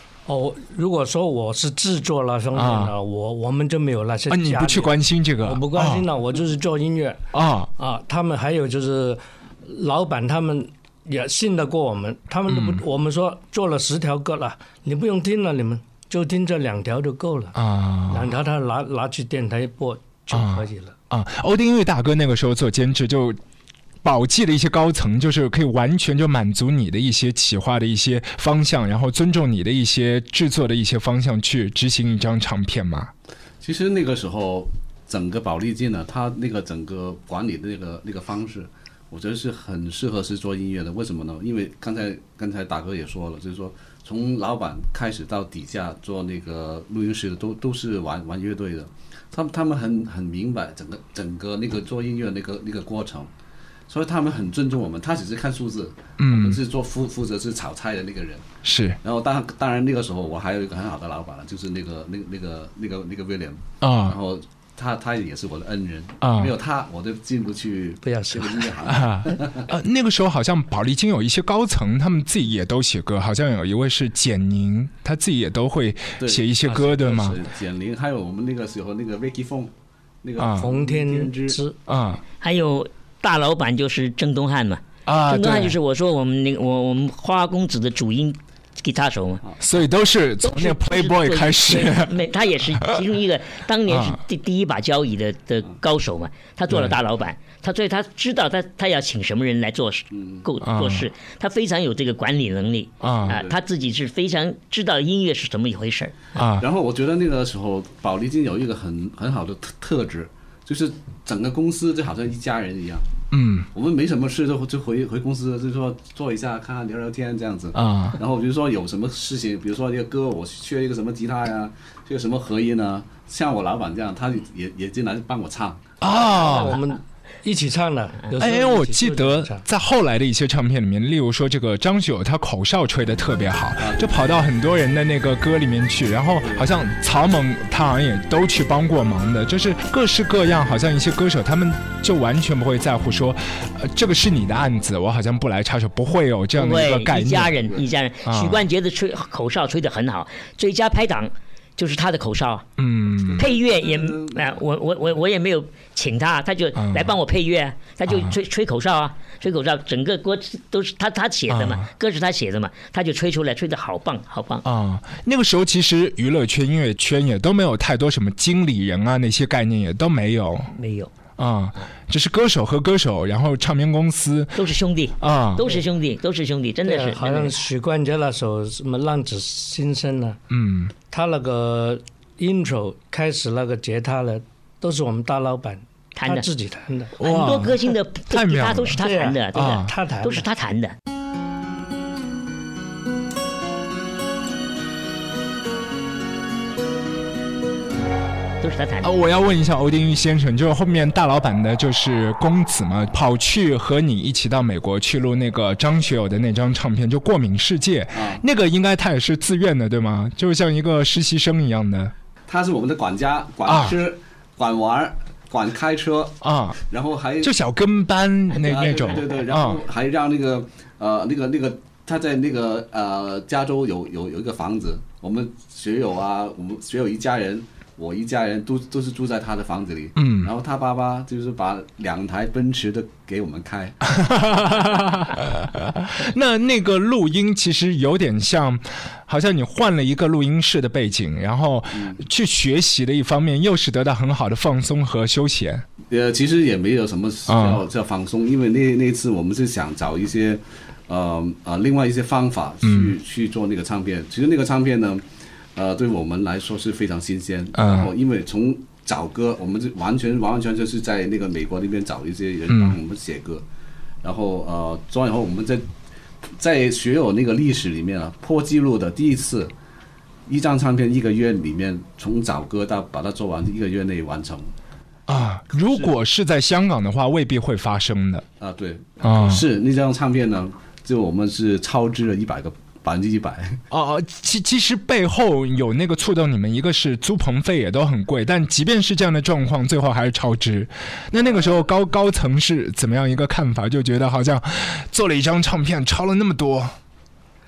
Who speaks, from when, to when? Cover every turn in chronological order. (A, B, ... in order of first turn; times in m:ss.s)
0:00.3-0:07.2 A
0:02.5-0:02.9 B
0:04.3-0:06.1 B
0:07.3-0:07.7 B
0:07.8-0:17.5 A
0:12.5-0:12.8 B
0:17.5-0:18.3 B
0:18.1-0:20.9 A
0:20.3-0:23.4 B
0:24.0-0:33.1 B
0:33.6-0:53.3 C
0:53.9-0:58.4 C
0:56.2-0:56.6 B
0:58.6-0:59.0 B
0:59.0-1:09.7 C
1:03.8-1:04.2 B
1:06.2-1:06.5 B
1:08.0-1:08.7 A
1:08.8-1:17.4 B
1:16.2-1:19.7 C
1:20.2-1:21.6 C
1:20.4-1:20.7 B
1:20.6-1:21.8 A
1:21.9-1:22.2 B
1:22.4-1:29.4 D
1:25.0-1:25.8 B
1:29.6-1:32.1 B
1:30.4-1:46.2 D
1:33.9-1:34.2 B
1:36.7-1:37.0 B
1:40.1-1:40.4 C
1:40.6-1:41.0 B
1:43.0-1:43.4 B
1:43.2-1:43.5 C
1:46.4-1:46.6 B
1:46.6-1:53.1 C
1:53.3-1:53.7 B
1:53.7-2:05.8 C
1:57.7-1:58.2 B
2:06.0-2:06.8 B
2:06.2-2:09.6 A
2:08.3-2:27.6 B
2:13.8-2:14.4 C
2:16.4-2:16.8 C
2:26.5-2:32.6 D
2:28.2-2:28.6 B
2:32.8-2:33.4 B
2:33.2-2:34.6 C
2:33.4-2:44.6 D
2:36.7-2:37.2 B
2:38.1-2:38.4 B
2:41.5-2:41.9 B
2:44.6-2:50.7 B
2:50.7-2:51.1 D
2:51.4-2:54.6 B
2:54.5-2:57.5 D
2:55.2-2:55.8 B
2:56.8-3:00.4 A
3:00.5-3:00.9 B
3:01.1-3:07.1 A
3:06.2-3:06.5 D
3:07.2-3:09.0 B
3:07.2-3:10.9 D
3:09.0-3:10.5 A
3:09.5-3:09.9 B
3:18.6-3:19.1 D
3:19.0-3:32.1 B
3:28.1-3:28.4 C
3:32.5-3:37.5 C
3:33.6-3:34.0 B
3:36.4-3:36.8 B
3:37.4-3:39.8 B
3:38.5-3:54.0 C
3:50.2-3:50.5 B
3:54.1-4:05.8 B
4:01.9-4:02.2 C
4:06.1-4:15.2 C
4:07.5-4:07.8 B
4:12.8-4:13.1 B
4:15.8-4:23.6 C
4:17.7-4:18.1 B
4:22.7-4:23.0 B
4:24.2-4:25.8 C
4:26.5-4:29.7 C
4:30.5-4:34.7 C
4:35.3-4:38.4 B
4:35.7-4:36.1 C
4:38.6-4:43.8 C
4:39.2-4:39.6 B
4:43.9-4:57.0 B